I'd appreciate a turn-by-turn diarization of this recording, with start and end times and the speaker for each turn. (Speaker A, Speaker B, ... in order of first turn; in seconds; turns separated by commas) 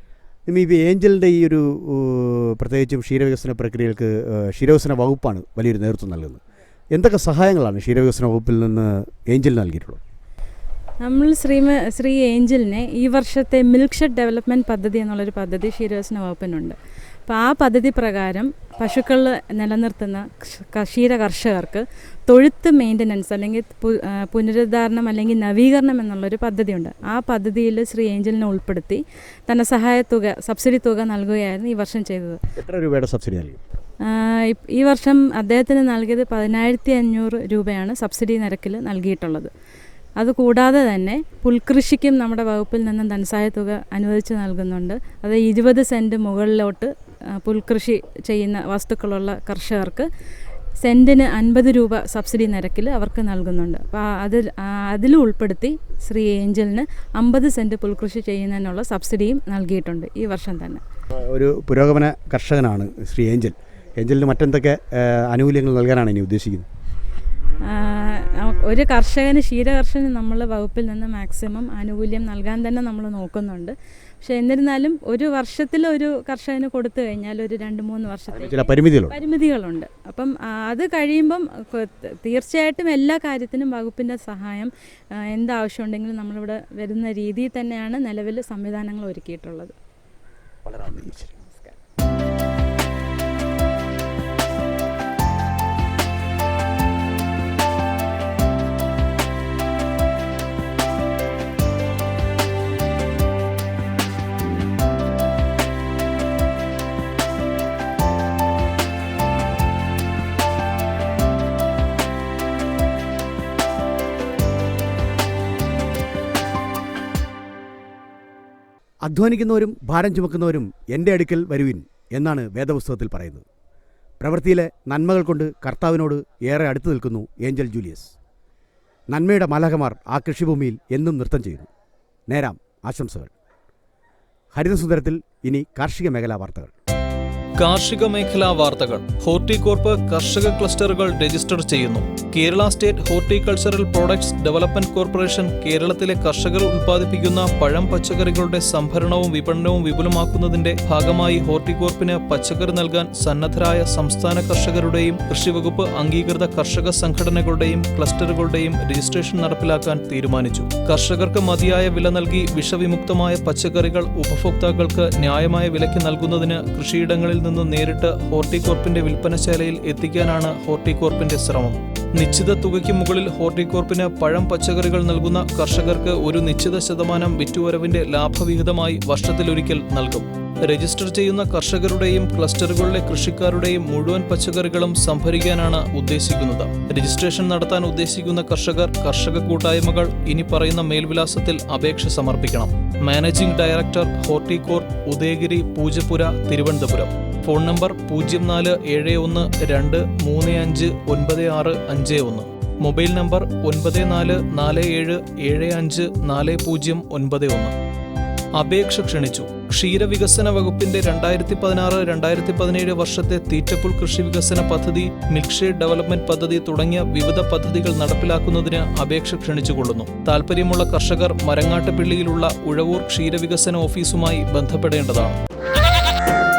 Speaker A: 0.5-6.4, Speaker A: 6.9-10.0, Speaker B: 11.0-32.4, Speaker A: 32.5-33.6, Speaker B: 34.0-39.5, Speaker B: 40.2-50.1, Speaker B: 50.8-60.8, Speaker A: 61.2-66.7, Speaker B: 67.7-89.7, Speaker A: 78.3-79.2, Speaker A: 90.6-91.4, Speaker B: 91.4-91.7, Speaker A: 119.0-123.4, Speaker A: 124.2-128.1, Speaker A: 129.1-131.7, Speaker A: 132.3-133.3, Speaker A: 134.5-136.7, Speaker C: 137.6-207.7, Speaker C: 208.6-225.4